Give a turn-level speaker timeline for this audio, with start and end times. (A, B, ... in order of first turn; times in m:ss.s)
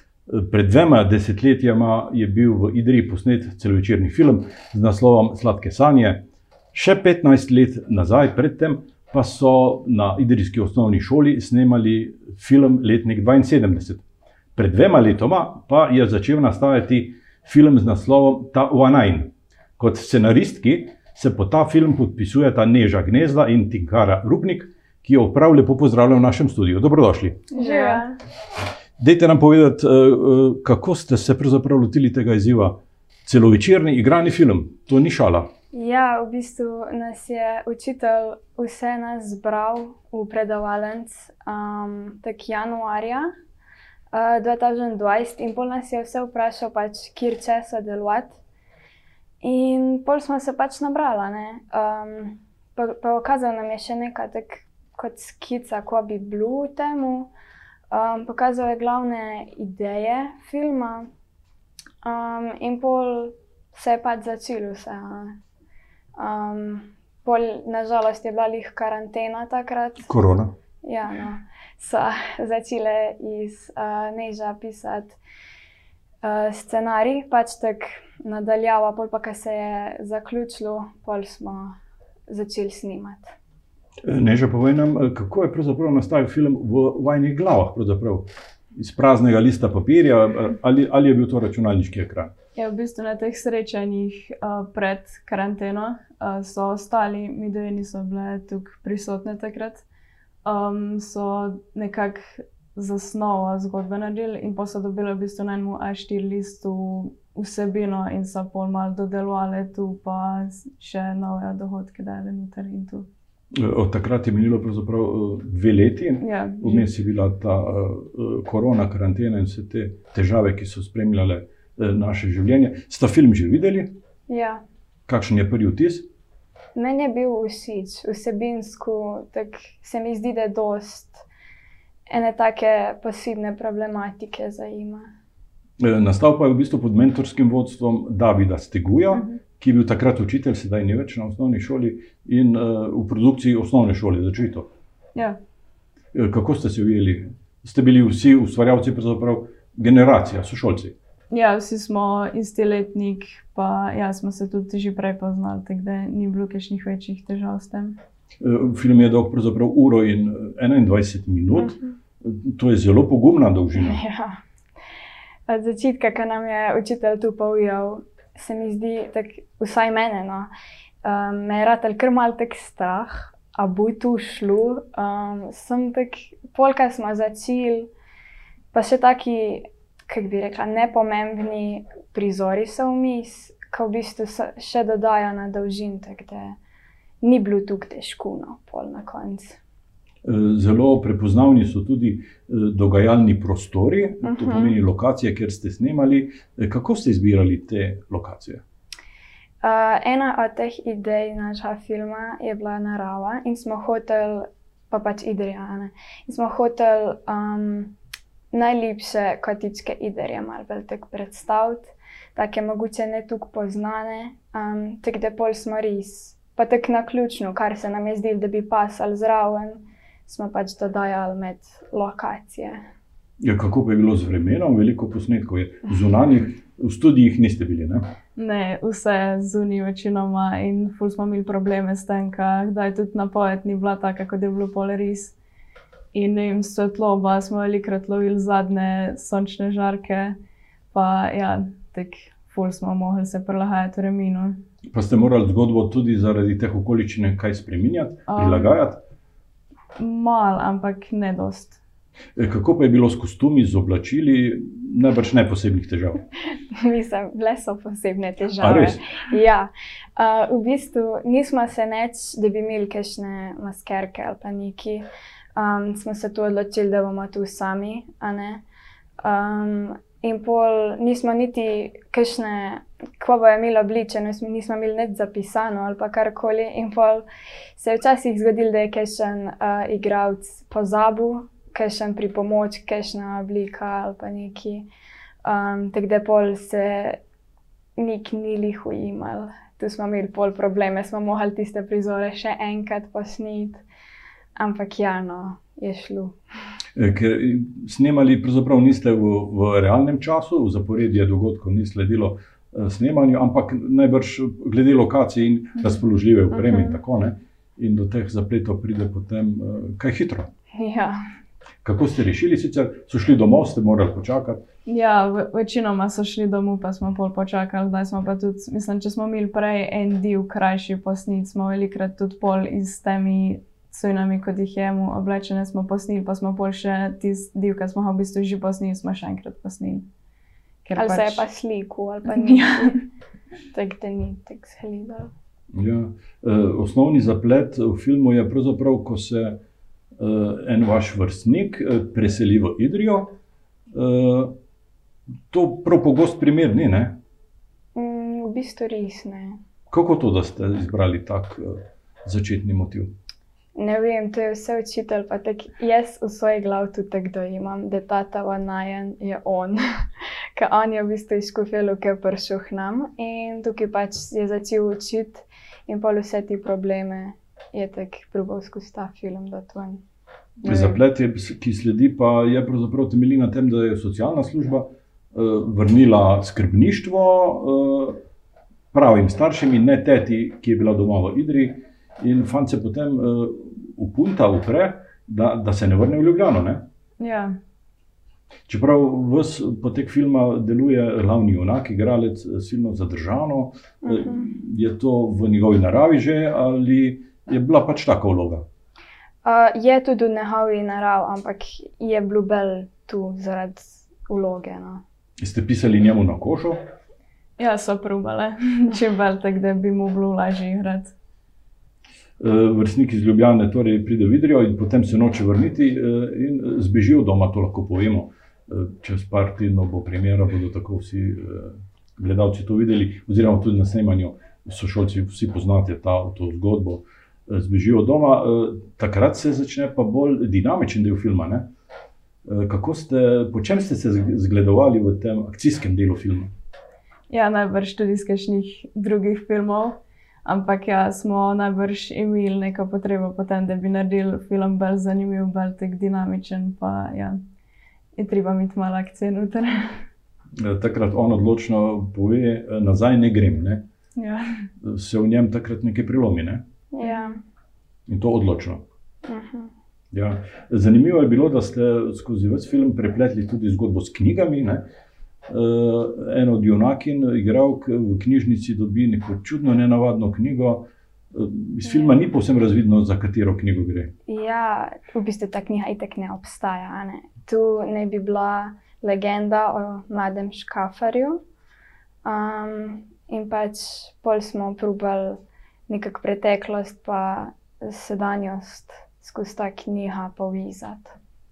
0:00.3-0:14.0 A
0:14.6-0:27.5 A
0:27.5-0:28.2 B
0:27.6-0:28.0 C
0:29.0-0:35.5 A
0:35.7-0:43.3 B
0:44.1-0:48.4 B
0:49.4-0:57.3 B
0:57.9-1:01.1 B
1:02.0-1:05.4 B
1:06.2-1:10.1 B
1:10.0-1:10.5 A
1:10.8-1:15.2 B
1:16.2-1:21.8 B
1:22.3-1:23.3 B
1:24.0-1:32.3 A
1:32.6-1:39.8 C
1:40.4-1:53.1 C
1:53.5-2:04.0 A
1:56.2-1:56.9 C
2:04.3-2:04.6 B
2:05.1-2:06.1 A
2:06.8-2:11.3 B
2:12.1-2:15.1 B
2:15.8-2:24.7 A
2:19.2-2:19.4 C
2:26.1-2:31.0 A
2:31.3-2:38.0 C
2:38.4-2:44.0 A
2:43.8-2:44.4 B
2:45.5-2:50.5 B
2:51.0-2:57.9 B
2:58.7-3:06.6 B
3:07.2-3:09.6 B
3:10.2-3:18.6 A
3:14.2-3:14.8 B
3:19.6-3:28.0 B
3:28.5-3:42.8 B
3:43.4-3:48.0 A
3:48.4-3:55.3 C
3:56.1-4:00.4 C
4:00.9-4:04.6 C
4:04.9-4:09.0 A
4:08.3-4:08.8 C
4:10.0-4:11.8 C
4:12.4-4:16.2 A
4:16.8-4:28.6 B
4:18.6-4:19.0 A
4:29.2-4:44.9 B
4:45.4-4:47.2 B
4:48.0-4:53.8 B
4:54.6-4:56.4 B
4:57.0-5:10.5 A
5:06.5-5:07.0 B
5:10.8-5:11.2 B
5:11.8-5:14.6 A
5:14.9-5:30.1 C
5:30.8-5:31.4 C
5:31.0-5:33.0 B
5:32.3-5:33.0 C
5:33.7-5:35.3 B
5:35.7-5:39.6 A
5:40.2-5:43.4 A
5:43.9-5:44.6 A
5:45.5-5:47.2 A
5:48.0-5:49.6 B
5:49.9-5:53.1 A
5:53.8-5:59.8 B
6:00.6-6:10.0 B
6:10.6-6:11.0 B
6:10.6-6:18.2 A
6:18.9-6:26.9 A
6:27.2-6:27.6 C
6:28.7-6:38.6 A
6:34.0-6:34.5 B
6:39.4-6:45.0 B
6:45.4-6:46.8 A
6:47.6-6:51.1 C
6:52.4-7:11.7 A
7:12.4-7:16.5 A
7:17.3-7:27.4 C
7:28.2-7:30.0 C
7:30.6-7:33.8 A
7:34.2-7:34.7 C
7:34.8-7:36.6 A
7:36.9-7:37.4 B
7:37.0-7:37.3 C
7:38.1-7:38.8 A
7:39.3-7:39.7 B
7:40.1-7:44.9 A
7:45.5-7:54.1 A
7:54.3-8:01.4 B
8:02.2-8:11.1 B